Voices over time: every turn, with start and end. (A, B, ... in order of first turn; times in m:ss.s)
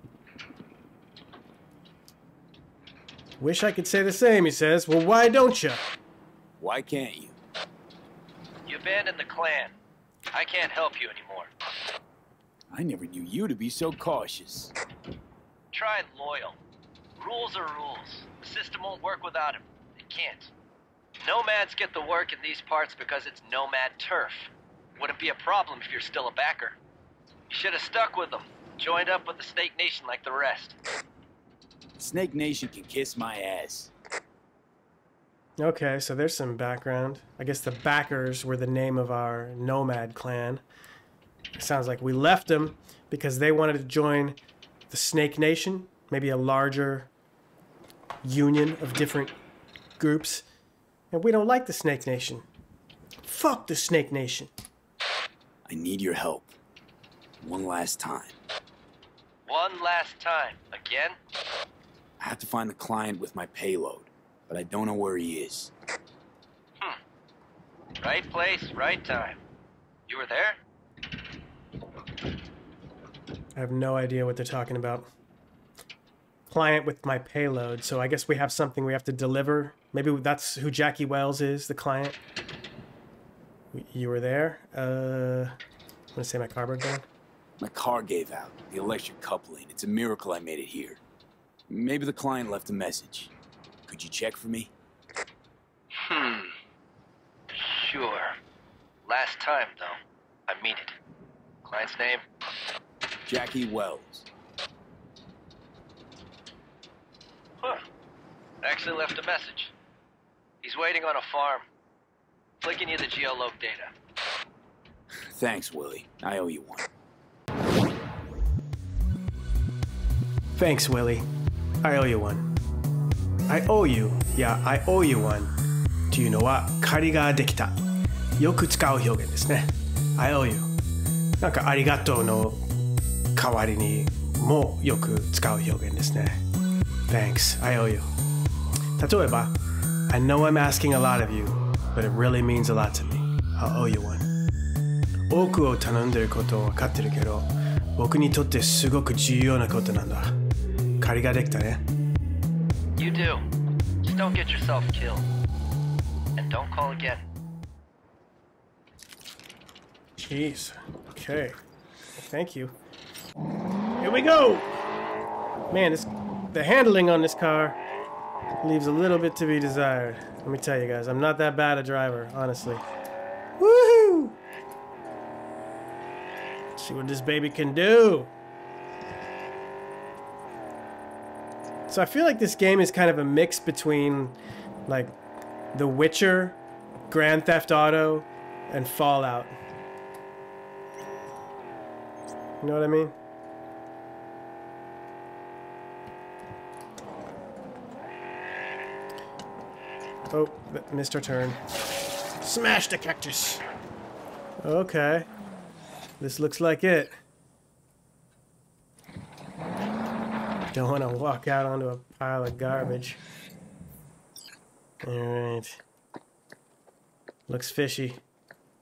0:03.4-0:05.8 A
0:06.6-0:07.4 B
0:08.7-0:09.7 C
0:10.3-0:11.5 C
0:12.7-0:14.7 B
0:15.7-0:16.6 C
0:17.2-0:20.5 C
0:21.2-0:26.8 C
0:27.5-0:30.8 C
0:32.0-0:33.9 B
0:35.6-0:40.6 A
0:41.6-0:44.4 A
0:44.9-0:47.1 A
0:48.2-0:49.3 A
0:50.0-0:50.4 A
0:51.1-0:52.4 A
0:53.2-0:54.5 A
0:55.6-0:56.5 B
0:57.4-0:58.4 B
0:59.4-1:01.2 C
1:02.2-1:05.7 B
1:08.0-1:09.4 C
1:10.1-1:10.6 C
1:13.5-1:15.1 A
1:16.5-1:22.2 A
1:23.7-1:25.6 A
1:26.1-1:27.0 A
1:27.6-1:31.0 B
1:31.7-1:33.3 B
1:33.8-1:34.7 B
1:36.0-1:36.5 C
1:37.5-1:38.4 C
1:39.0-1:40.0 C
1:40.5-1:40.9 C
1:41.6-1:42.2 C
1:43.2-1:44.3 B
1:48.6-1:49.7 C
1:50.6-1:51.6 C
1:52.6-1:53.9 C
1:55.2-1:56.9 B
2:00.5-2:01.2 A
2:01.8-2:02.5 A
2:03.5-2:05.5 A
2:06.1-2:07.8 A
2:08.4-2:10.7 A
2:11.4-2:12.6 A
2:13.3-2:16.4 A
2:17.1-2:18.1 A
2:19.0-2:19.5 A
2:20.1-2:24.2 A
2:25.3-2:30.3 A
2:31.0-2:31.8 A
2:33.0-2:33.4 C
2:34.0-2:35.3 C
2:36.4-2:37.2 C
2:40.2-2:41.6 A
2:42.2-2:42.7 A
2:44.0-2:44.7 A
2:45.7-2:47.8 A
2:48.6-2:52.8 A
2:53.6-2:54.4 A
2:56.8-2:58.3 A
3:01.9-3:04.4 A
3:04.9-3:05.1 A
3:05.7-3:06.6 A
3:07.1-3:09.6 A
3:12.6-3:13.1 A
3:20.3-3:21.6 A
3:22.4-3:23.6 A
3:24.6-3:25.3 A
3:26.2-3:27.2 A
3:30.7-3:33.2 A
3:35.0-3:35.8 A
3:37.5-3:38.2 A